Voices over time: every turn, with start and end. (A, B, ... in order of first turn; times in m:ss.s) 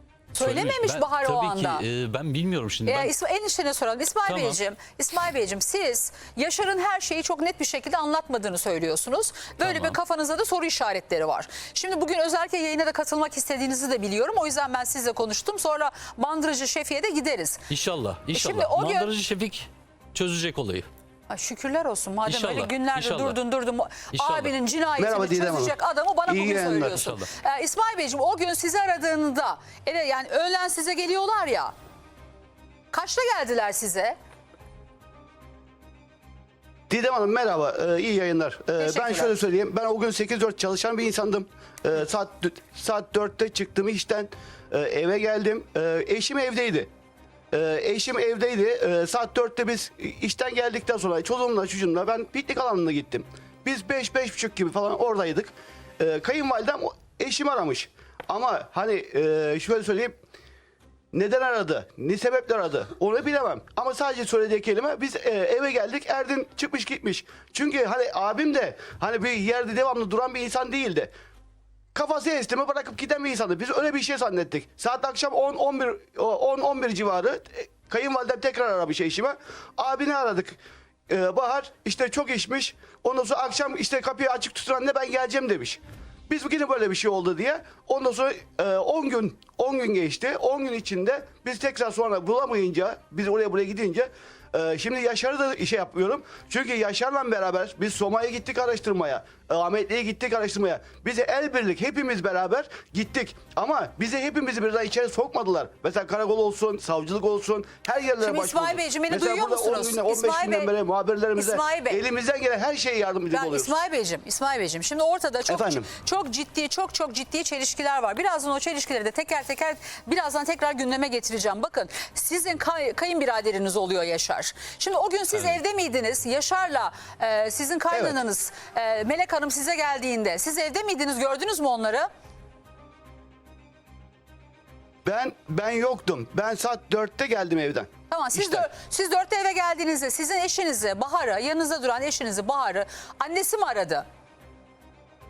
0:00.4-0:01.8 A
0:00.4-0:03.1 B
0:02.9-0:17.7 A
0:04.3-0:04.6 B
0:09.6-0:10.0 B
0:17.7-0:20.9 B
0:18.3-0:19.1 A
0:21.3-0:31.7 A
0:22.2-0:23.4 B
0:24.1-0:24.5 B
0:25.0-0:27.0 C
0:26.8-0:27.3 B
0:32.9-0:34.2 A
0:36.9-0:46.9 C
0:38.8-0:39.3 A
0:47.5-1:00.2 C
1:01.1-1:11.1 C
1:12.0-1:53.8 C
1:48.2-1:50.7 A
1:51.4-1:52.0 A
1:53.3-2:12.1 A
1:55.5-1:55.9 C
2:07.9-2:08.2 C
2:15.0-2:18.6 C
2:18.1-2:24.0 A